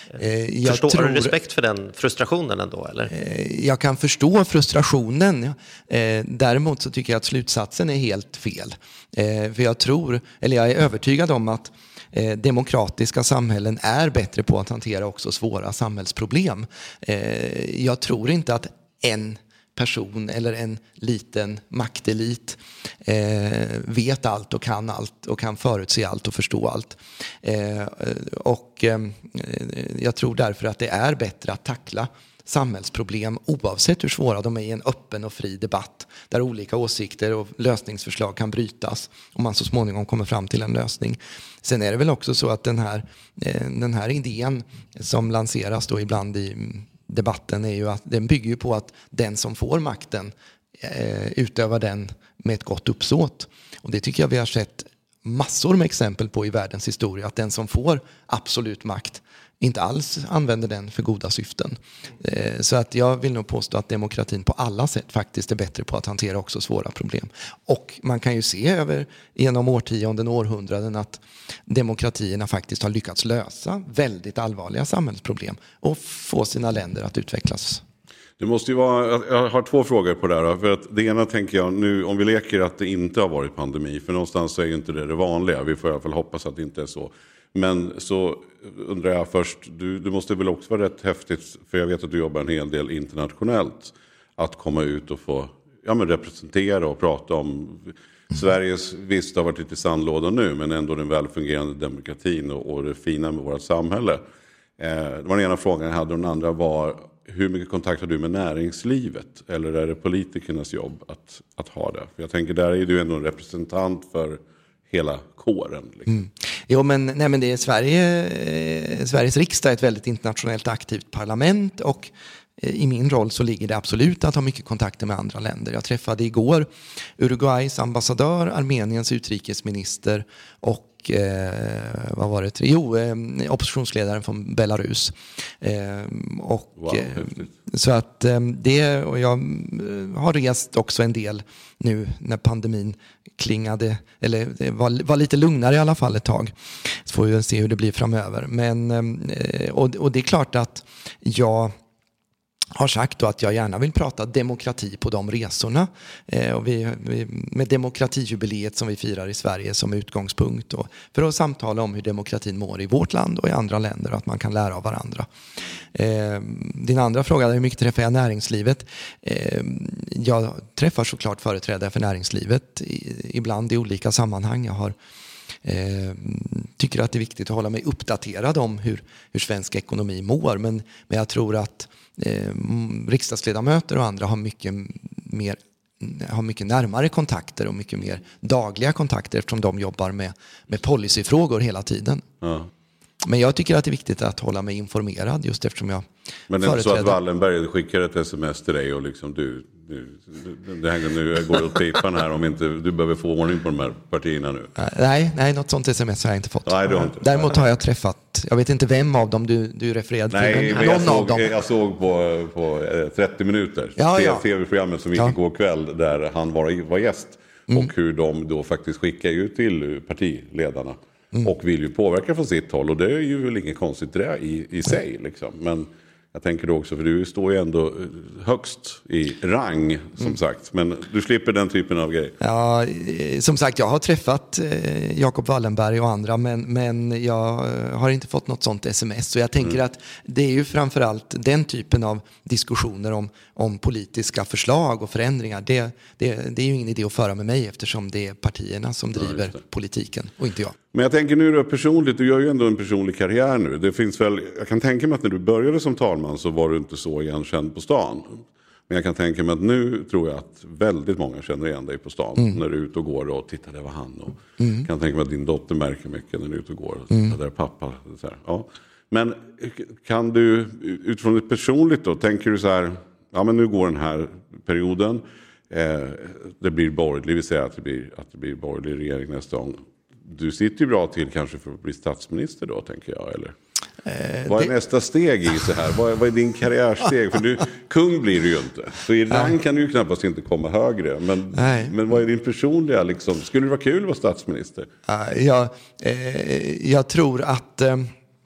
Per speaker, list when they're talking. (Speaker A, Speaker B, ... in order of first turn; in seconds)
Speaker A: 0.2-1.3, 3.1-77.8, 116.1-151.7, 152.7-165.3, 165.9-174.9, 175.6-192.2, 193.2-196.1, 196.6-197.2, 204.8-211.5, 214.0-214.4, 232.4-250.7, 264.6-264.9, 267.1-267.4, 284.0-284.7, 291.5-292.0, 295.1-298.1
Speaker B: 0.6-3.1
Speaker C: 78.4-104.2, 104.8-114.4, 114.9-116.1, 136.8-137.5, 192.4-192.7, 196.5-204.7, 206.7-207.6, 210.3-232.3, 249.2-249.5, 250.9-283.5, 284.4-294.9